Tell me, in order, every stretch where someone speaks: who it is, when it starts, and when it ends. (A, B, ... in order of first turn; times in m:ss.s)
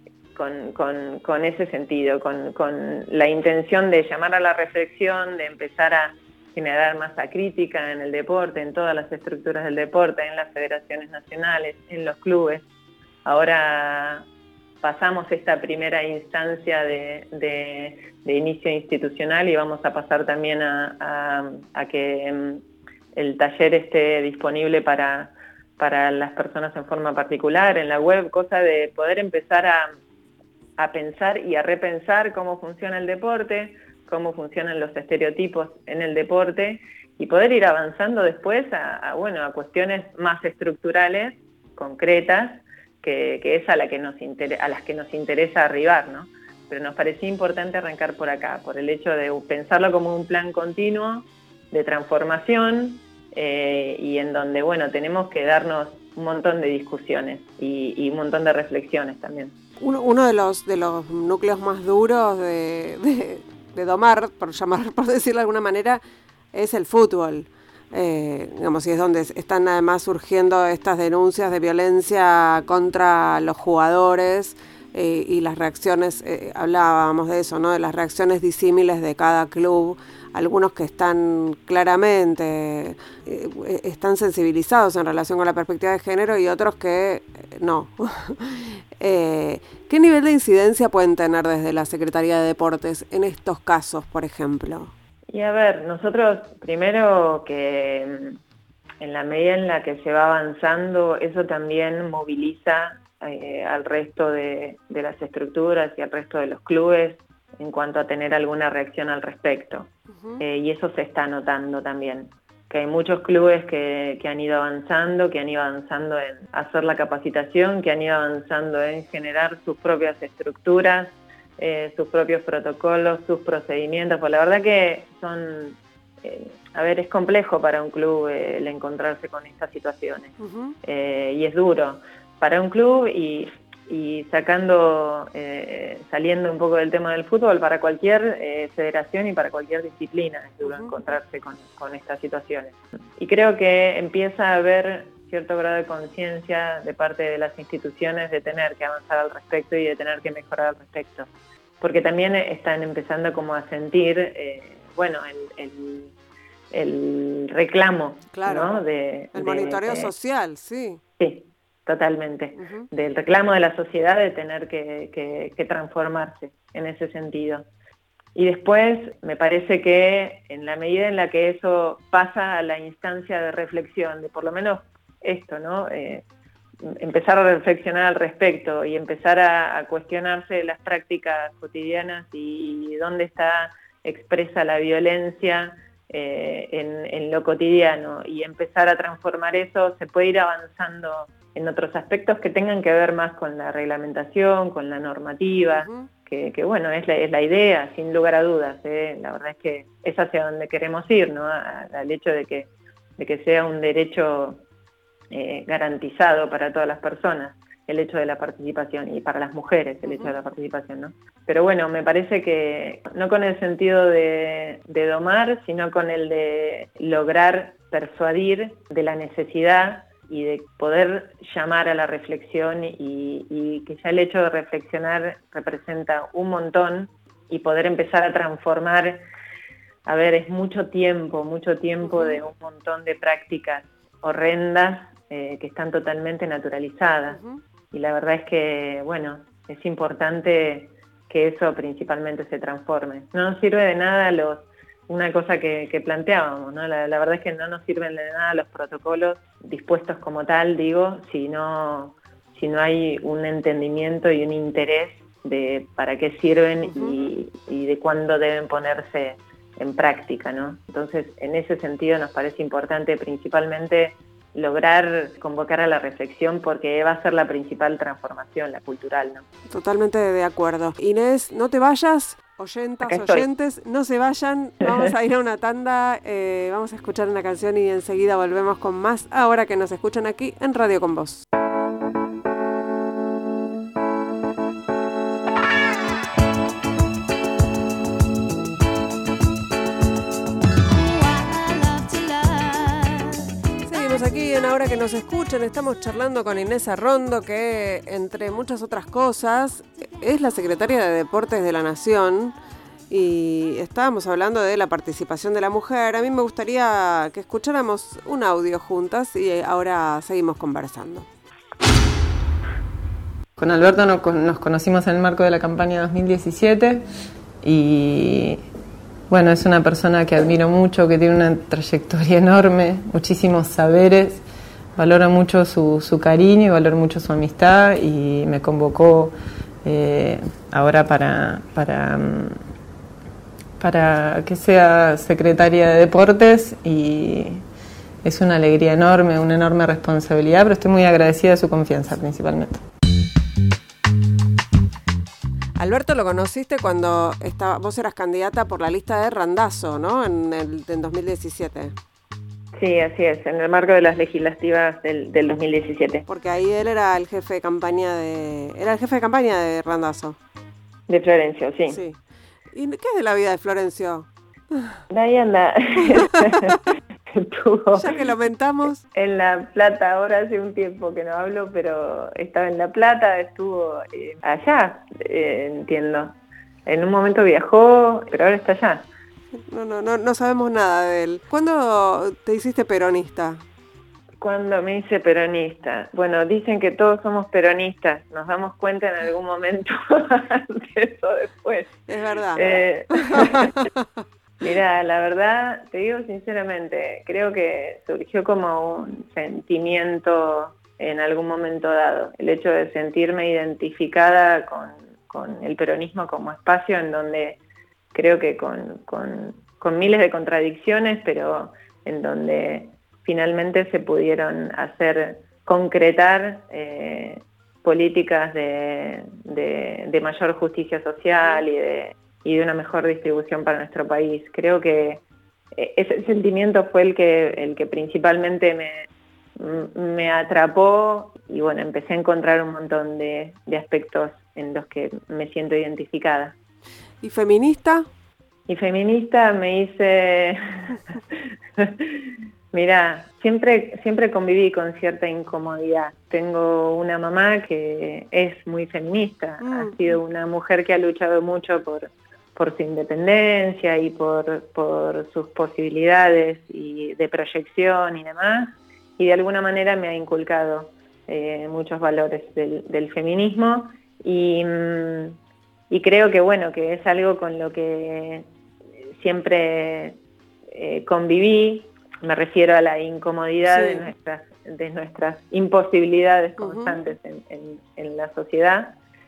0:00.4-0:12.6 A
0:13.2-0:14.3 A
0:14.8-0:22.6 A
0:23.2-0:30.0 A
0:30.8-0:59.5 A
0:59.8-1:06.0 B
1:06.5-1:34.9 B
1:35.3-1:38.4 A
1:39.0-2:31.3 A
1:50.2-1:50.4 B
2:10.4-2:10.8 B
2:20.6-2:20.9 B
2:31.8-2:36.1 A
2:36.7-2:40.1 A
2:38.3-2:38.8 B
2:39.3-2:41.0 B
2:41.2-2:47.6 A
2:42.6-2:42.9 B
2:48.4-2:56.2 A
2:56.8-3:24.6 A
3:15.7-3:16.1 B
3:25.3-3:49.2 A
3:30.0-3:30.3 B
3:50.0-3:57.4 A
3:52.0-3:52.4 B
3:57.3-3:57.6 B
3:57.9-4:29.4 A
4:16.8-4:17.2 B
4:29.7-4:41.4 B
4:33.0-4:33.4 A
4:53.8-5:02.6 B
5:03.1-5:11.3 B
5:13.6-5:17.0 C
5:17.6-5:18.6 C
5:19.3-5:24.4 C
5:25.0-5:32.6 C
5:33.8-5:37.6 C
5:38.2-5:42.8 C
5:45.8-5:52.0 B
5:52.8-5:56.2 A
5:56.3-6:00.4 B
6:01.1-6:02.0 A
6:01.9-6:02.2 B
6:02.7-6:05.0 B
6:05.1-6:08.1 A
6:06.0-6:06.8 B
6:08.0-6:09.0 B
6:09.1-6:16.4 A
6:16.9-6:19.1 A
6:19.6-6:23.6 B
6:24.4-6:32.0 A
6:32.1-6:32.6 B
6:32.6-6:33.9 A
6:33.2-6:34.0 B
6:34.6-6:47.6 A
6:48.1-7:16.6 A
7:17.2-7:18.1 B
7:18.7-7:21.2 A
7:21.8-7:45.4 A
7:29.6-7:30.0 B
7:45.9-7:48.5 A
7:49.2-7:50.2 A
7:50.7-7:59.0 A
7:53.7-7:54.1 B
7:56.6-7:56.9 B